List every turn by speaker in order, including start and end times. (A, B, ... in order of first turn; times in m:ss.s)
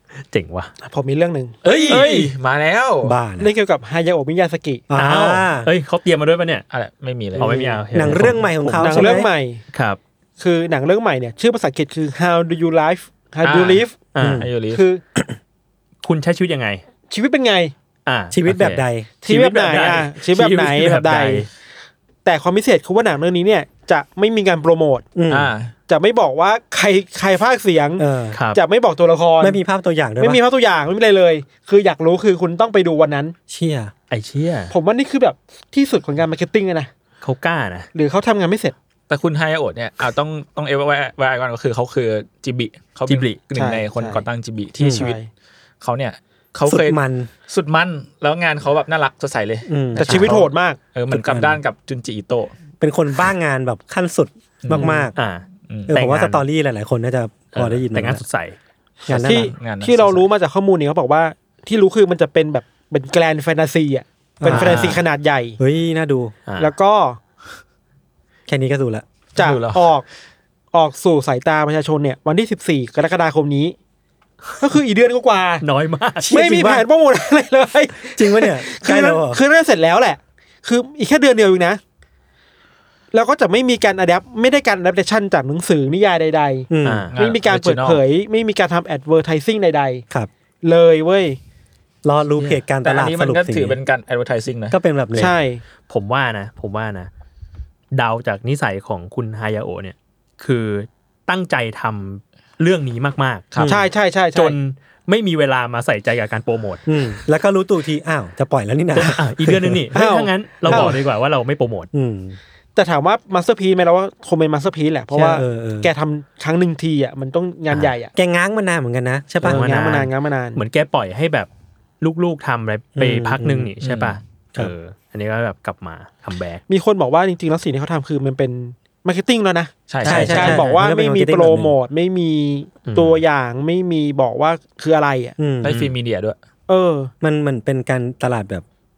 0:00.3-0:00.7 A
0:00.8-0:02.3 B
0:01.6-0:03.2 C
0:03.0-0:03.5 D
0:03.4-0:04.9 B
0:04.9-0:05.7 D
0:05.0-0:06.6 A
0:06.7-0:07.5 C
0:07.4-0:09.3 D
0:07.4-0:09.2 A
0:07.4-0:07.8 B
0:08.8-0:09.6 B
0:09.7-0:10.0 A
0:10.4-0:14.0 B
0:13.4-0:13.8 C
0:14.1-0:14.4 A
0:14.2-0:14.5 D
0:14.4-0:14.8 C
0:14.7-0:15.0 B
0:16.0-0:16.8 A
0:17.1-0:17.7 B
0:18.1-0:21.5 A
0:18.3-0:19.1 D
0:19.2-0:21.5 B
0:22.2-0:25.1 B
0:25.2-0:25.5 D
0:25.3-0:25.7 C
0:25.9-0:29.6 B
0:28.0-0:28.4 D
0:28.3-0:28.6 A
0:29.4-0:30.4 D
0:30.2-0:33.4 B
0:33.5-0:33.9 D
0:34.1-0:34.7 A
0:34.7-0:36.9 B
0:37.2-0:37.9 A
0:37.9-0:38.7 B
0:39.1-0:45.2 C
0:43.1-0:43.4 A
0:43.6-0:44.2 B
0:44.8-0:45.1 D
0:44.8-0:45.3 B
0:45.8-0:52.5 C
0:46.6-0:47.3 D
0:49.7-0:50.4 D
0:50.0-0:50.8 B
0:51.1-0:51.6 D
0:52.8-0:55.1 D
0:54.6-0:55.0 C
0:54.8-0:55.0 B
0:55.2-0:56.4 A
0:55.7-0:56.0 C
0:55.9-0:58.2 D
0:57.5-0:58.6 A
0:59.1-0:59.5 D
0:59.1-1:00.3 C
0:59.2-1:05.6 B
1:04.4-1:05.0 D
1:04.5-1:05.0 C
1:05.6-1:06.4 D
1:06.5-1:06.7 A
1:06.6-1:07.2 B
1:08.5-1:09.1 D
1:09.4-1:10.0 B
1:09.4-1:09.9 C
1:10.7-1:13.8 B
1:14.6-1:15.6 B
1:15.6-1:16.3 A
1:16.2-1:16.9 D
1:16.3-1:21.8 B
1:18.0-1:19.4 D
1:23.1-1:30.0 B
1:26.7-1:27.1 D
1:26.8-1:27.2 A
1:27.2-1:28.0 C
1:30.6-1:31.4 B
1:32.0-1:33.8 D
1:32.8-1:35.3 C
1:34.7-1:35.4 D
1:35.2-1:35.6 B
1:35.9-1:37.1 A
1:37.9-1:43.5 A
1:43.6-1:43.9 D
1:43.6-1:44.6 B
1:44.3-1:46.8 A
1:46.9-1:51.0 D
1:48.9-1:51.9 A
1:50.0-1:50.9 B
1:51.9-1:52.4 D
1:52.8-1:58.1 B
1:55.1-1:55.9 D
1:58.1-1:59.8 D
1:59.4-2:01.5 A
1:59.4-2:00.6 B
2:02.0-2:06.6 A
2:03.0-2:03.7 D
2:03.8-2:04.2 C
2:06.7-2:15.4 B
2:09.9-2:10.7 C
2:10.0-2:11.8 D
2:10.0-2:10.6 A
2:12.8-2:13.2 A
2:15.4-2:15.8 D
2:15.6-2:16.4 C
2:15.7-2:15.9 A
2:16.7-2:17.1 B
2:17.2-2:18.6 D